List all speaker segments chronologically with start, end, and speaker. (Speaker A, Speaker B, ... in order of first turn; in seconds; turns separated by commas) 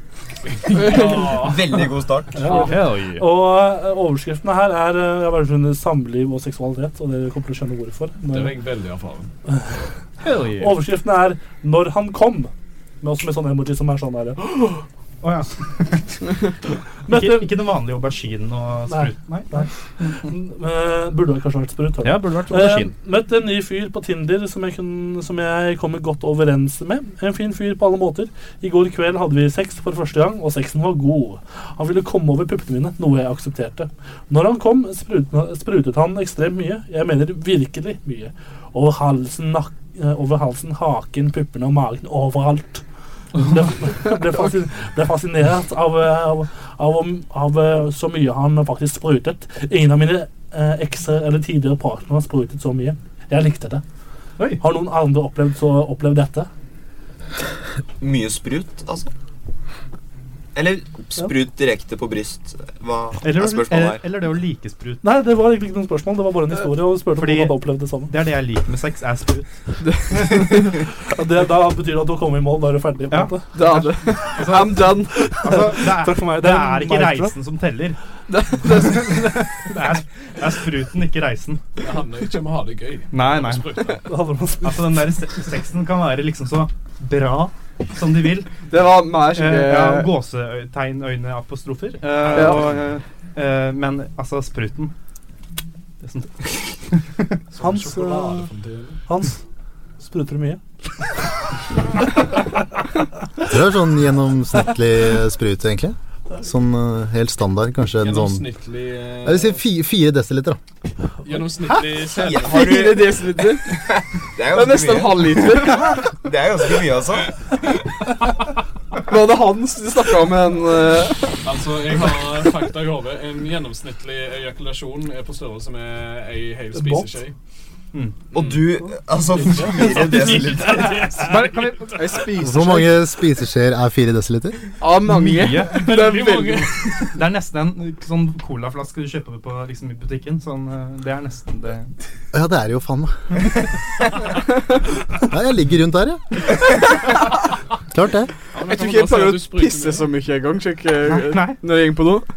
Speaker A: 0.6-1.8, Speaker B: 0.7-2.6, Speaker C: 2.3-8.6, Speaker D: 2.6-3.3, Speaker A: 8.3-9.3, Speaker D: 10.2-10.8, Speaker C: 10.6-14.8, Speaker D: 15.2-16.4, Speaker C: 17.1-17.6, Speaker D: 17.1-20.3, Speaker C: 18.9-42.8, Speaker D: 22.0-22.9, Speaker C: 43.4-53.8, Speaker D: 54.4-54.6, Speaker C: 54.6-56.5, Speaker B: 58.0-59.1, Speaker B: 60.5-64.0, Speaker D: 63.2-65.0, Speaker C: 65.0-68.1, Speaker D: 67.1-69.5, Speaker D: 70.1-70.6, Speaker E: 70.1-70.5, Speaker C: 71.1-73.5, Speaker D: 73.1-78.0, Speaker E: 73.5-75.3, Speaker C: 75.1-77.3, Speaker E: 78.3-79.3, Speaker D: 78.5-81.6, Speaker A: 81.8-84.0, Speaker D: 83.1-84.0, Speaker C: 84.0-85.1, Speaker D: 84.6-88.7, Speaker E: 88.7-90.1, Speaker D: 89.3-94.9, Speaker E: 92.3-92.7, Speaker D: 96.0-97.4, Speaker A: 97.5-99.0, Speaker C: 97.6-98.5, Speaker C: 99.1-99.4, Speaker C: 100.0-100.6, Speaker F: 103.4-108.4, Speaker A: 108.0-109.6, Speaker F: 109.2-110.6, Speaker A: 111.2-112.7, Speaker B: 112.0-117.6, Speaker E: 112.3-113.8, Speaker E: 114.5-116.0, Speaker E: 119.1-121.4, Speaker A: 121.4-127.3, Speaker C: 126.7-127.2, Speaker B: 128.3-131.2, Speaker A: 129.5-131.7, Speaker D: 130.2-132.4, Speaker E: 131.9-133.0, Speaker F: 132.4-134.7, Speaker E: 134.8-136.8, Speaker D: 135.1-141.9, Speaker A: 135.9-136.6, Speaker F: 142.3-143.4, Speaker F: 145.2-146.2, Speaker F: 147.9-148.3, Speaker A: 148.5-150.1, Speaker E: 148.6-152.2, Speaker D: 151.1-151.6